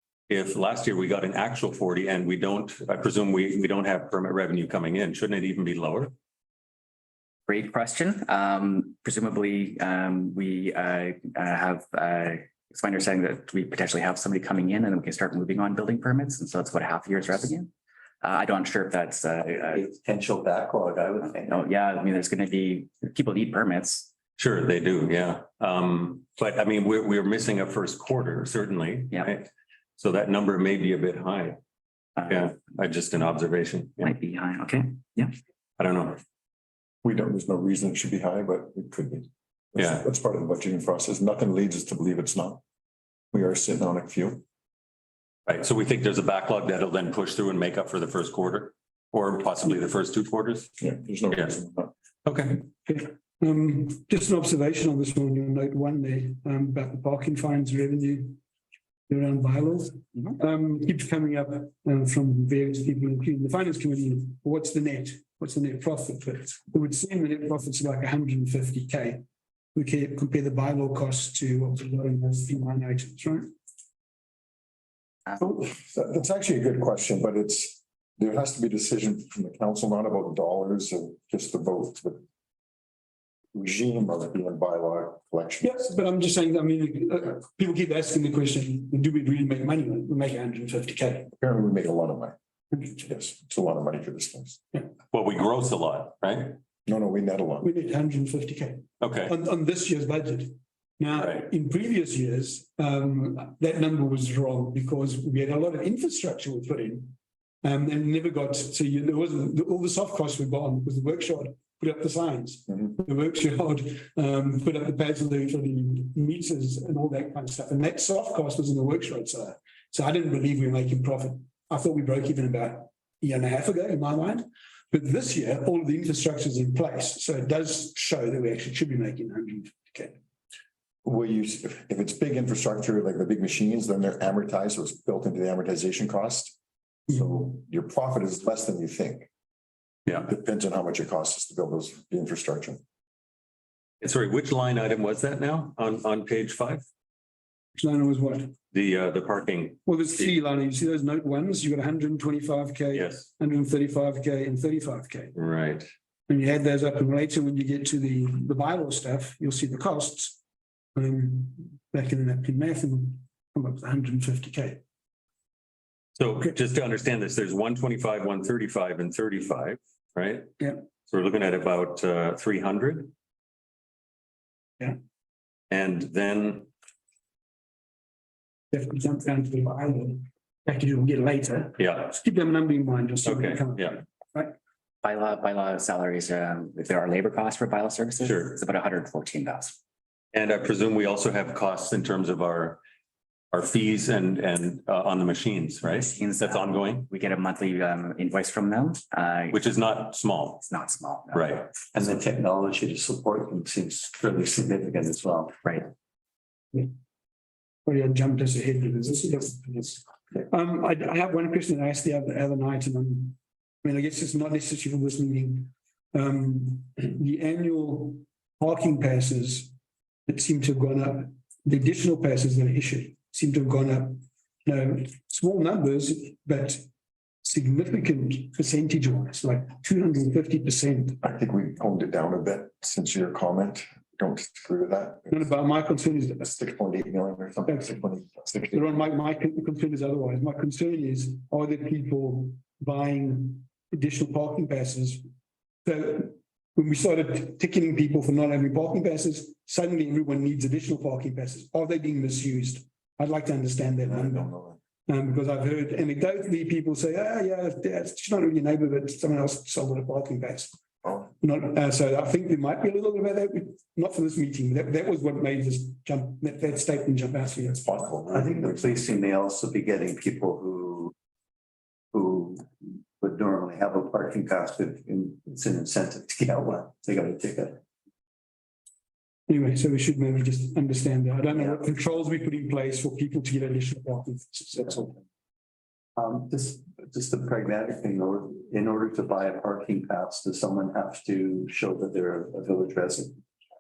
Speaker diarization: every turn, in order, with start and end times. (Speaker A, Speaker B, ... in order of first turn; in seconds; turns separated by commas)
Speaker A: 0.3-6.1, Speaker B: 7.5-17.7, Speaker B: 18.2-19.9, Speaker C: 19.7-21.6, Speaker B: 21.4-24.1, Speaker A: 24.4-31.6, Speaker A: 32.2-34.1, Speaker B: 34.0-35.3, Speaker A: 35.8-36.2, Speaker D: 37.0-42.6, Speaker A: 39.8-40.0, Speaker D: 43.3-44.4, Speaker A: 45.5-50.8, Speaker D: 50.8-51.9, Speaker A: 51.3-51.6, Speaker A: 52.2-52.7, Speaker E: 52.9-58.4, Speaker E: 59.1-73.5, Speaker D: 75.4-82.2, Speaker D: 83.5-85.9, Speaker E: 85.6-91.3, Speaker D: 91.3-92.3, Speaker E: 92.7-93.0, Speaker D: 93.0-94.6, Speaker A: 95.1-96.6, Speaker D: 96.8-97.7, Speaker E: 97.6-130.2, Speaker A: 99.0-99.3, Speaker A: 101.2-101.4, Speaker D: 131.0-136.5, Speaker D: 137.1-139.3, Speaker D: 140.1-142.8, Speaker A: 144.0-146.8, Speaker E: 147.8-148.6, Speaker A: 148.7-149.8, Speaker E: 149.8-155.3, Speaker A: 152.9-153.3, Speaker A: 155.3-155.8, Speaker E: 156.3-160.4, Speaker E: 160.9-164.8, Speaker A: 166.2-170.5, Speaker A: 171.0-173.1, Speaker A: 175.7-176.7, Speaker E: 178.7-184.5, Speaker A: 181.8-182.0, Speaker A: 183.2-184.0, Speaker B: 185.0-189.8, Speaker A: 188.2-188.6, Speaker A: 190.3-192.8, Speaker A: 193.5-197.1, Speaker B: 195.9-199.6, Speaker A: 199.5-200.6, Speaker B: 200.6-201.6, Speaker A: 201.3-201.7, Speaker C: 201.9-205.8, Speaker E: 207.8-219.7, Speaker E: 220.3-226.8, Speaker E: 227.4-231.2, Speaker D: 231.2-235.4, Speaker E: 235.3-236.4, Speaker D: 236.4-239.0, Speaker E: 237.7-238.0, Speaker E: 238.7-245.2, Speaker E: 245.8-254.5, Speaker D: 254.1-254.8, Speaker E: 255.1-260.8, Speaker E: 261.3-267.8, Speaker D: 267.6-269.0, Speaker C: 268.3-271.1, Speaker C: 272.1-272.6, Speaker C: 273.2-277.8, Speaker E: 279.5-285.2, Speaker C: 286.1-293.4